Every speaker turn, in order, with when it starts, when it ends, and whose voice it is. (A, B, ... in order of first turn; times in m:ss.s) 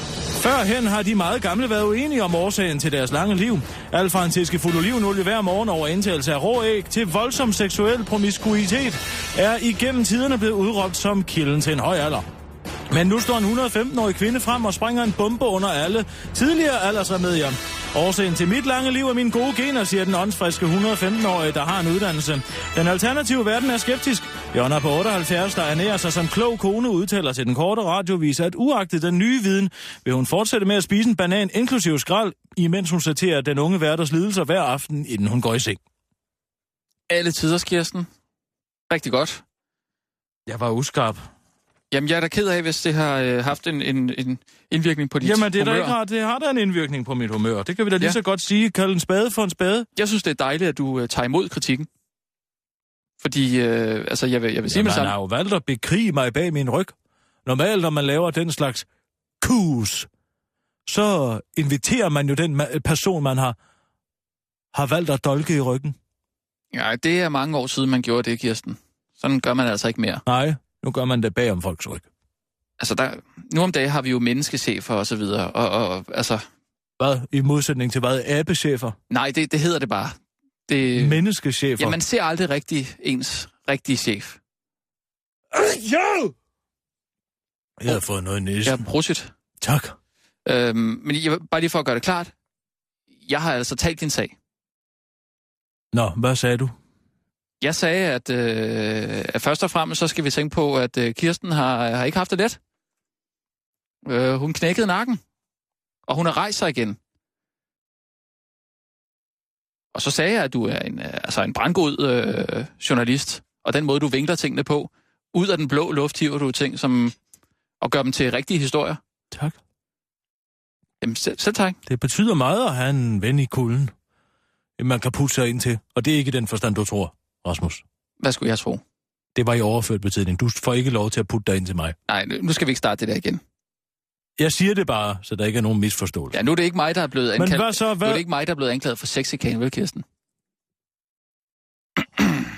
0:00.3-0:12.2 A
0:12.9-0:35.8 A
0:37.1-0:38.1 B
0:38.9-0:39.4 B
0:40.4-0:41.3 A
0:41.9-0:45.9 B
0:45.2-0:49.9 A
0:50.0-0:51.9 B
0:53.2-0:55.1 B
0:54.7-0:58.8 A
0:59.4-1:00.1 A
1:00.8-1:03.6 A
1:04.7-1:06.0 A
1:06.7-1:10.2 B
1:10.2-1:12.1 A
1:12.8-1:16.4 B
1:17.0-1:19.0 A
1:19.1-1:20.2 B
1:20.7-1:21.2 B
1:20.9-1:22.0 A
1:21.8-1:24.4 B
1:25.5-1:26.3 A
1:27.8-1:28.8 A
1:28.6-1:29.3 B
1:29.6-1:30.0 A
1:30.4-1:32.3 B
1:33.2-1:34.3 B
1:35.9-1:36.8 A
1:37.6-1:42.6 B
1:44.0-1:45.2 B
1:46.1-1:47.0 B
1:49.9-1:57.1 B
1:57.8-1:59.0 B
1:59.3-1:59.6 A
2:01.0-2:01.8 B
2:01.8-2:03.9 A
2:04.8-2:07.8 A
2:08.2-2:08.8 B
2:09.4-2:12.0 A
2:12.1-2:13.4 B
2:14.4-2:16.4 A
2:16.3-2:20.0 B
2:17.4-2:18.2 A
2:22.0-2:22.5 B